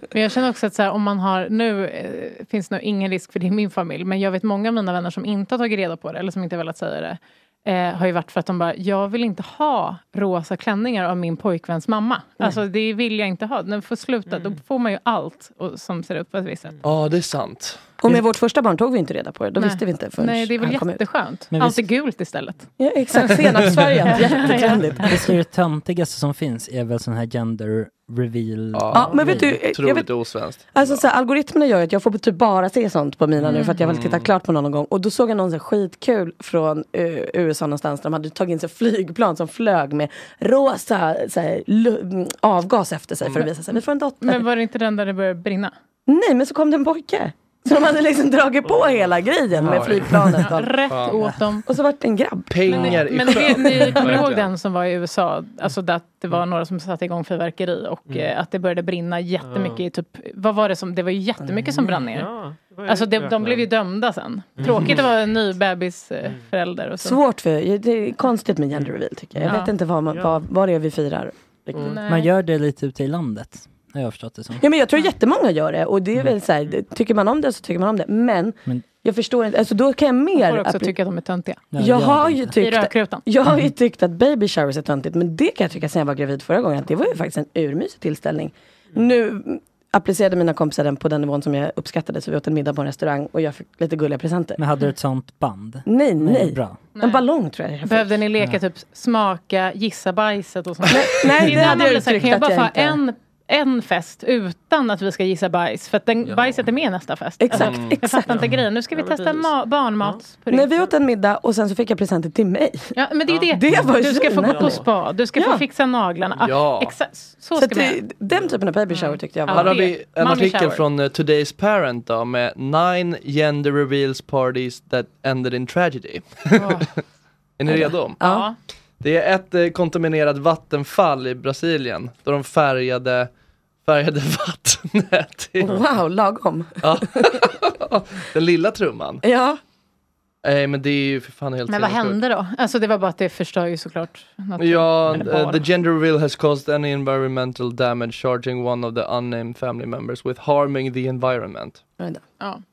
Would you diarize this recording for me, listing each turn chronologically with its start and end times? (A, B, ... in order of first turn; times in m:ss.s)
0:00.1-0:16.8 A
0:16.8-0:17.8 B
0:18.0-0:21.0 C
0:19.6-0:25.2 A
0:21.5-0:21.8 D
0:22.8-0:25.3 C
0:25.0-0:29.1 D
0:28.7-0:31.0 B
0:28.9-0:30.1 C
0:30.7-0:44.4 C
0:33.4-0:34.3 B
0:33.5-0:33.8 A
0:44.2-0:45.7 A
0:46.1-0:50.9 C
0:49.6-0:51.2 B
0:50.4-0:51.7 A
0:51.6-0:54.0 C
0:52.5-0:54.5 B
0:52.7-1:02.3 A
0:59.4-0:59.8 E
1:01.4-1:01.8 C
1:02.0-1:03.7 E
1:02.9-1:07.2 A
1:04.6-1:05.1 E
1:07.0-1:12.0 C
1:09.5-1:09.7 A
1:10.1-1:10.4 E
1:11.8-1:12.3 A
1:12.1-1:14.6 D
1:14.6-1:20.9 C
1:20.4-1:21.6 A
1:21.7-1:22.6 D
1:21.8-1:34.6 C
1:22.6-1:23.2 A
1:34.6-1:36.8 D
1:35.9-1:38.2 C
1:37.0-1:37.2 A
1:37.8-1:50.9 A
1:40.9-1:43.0 C
1:47.4-1:48.4 C
1:47.5-1:48.1 B
1:49.0-1:49.4 E
1:50.5-1:52.9 C
1:53.0-1:58.0 A
1:53.5-1:54.8 C
1:54.6-1:54.8 E
1:55.4-1:55.6 C
1:56.4-1:57.0 B
1:57.6-1:59.8 C
1:58.9-2:00.8 A
1:59.5-2:07.0 B
2:06.6-2:06.9 A
2:07.6-2:08.2 B
2:07.7-2:08.5 C
2:08.2-2:08.6 A
2:09.0-2:13.3 B
2:13.8-2:15.8 B
2:15.6-2:17.3 C
2:16.8-2:19.2 B
2:19.2-2:19.6 C
2:20.4-2:22.2 B
2:21.7-2:25.7 A
2:24.6-2:31.8 B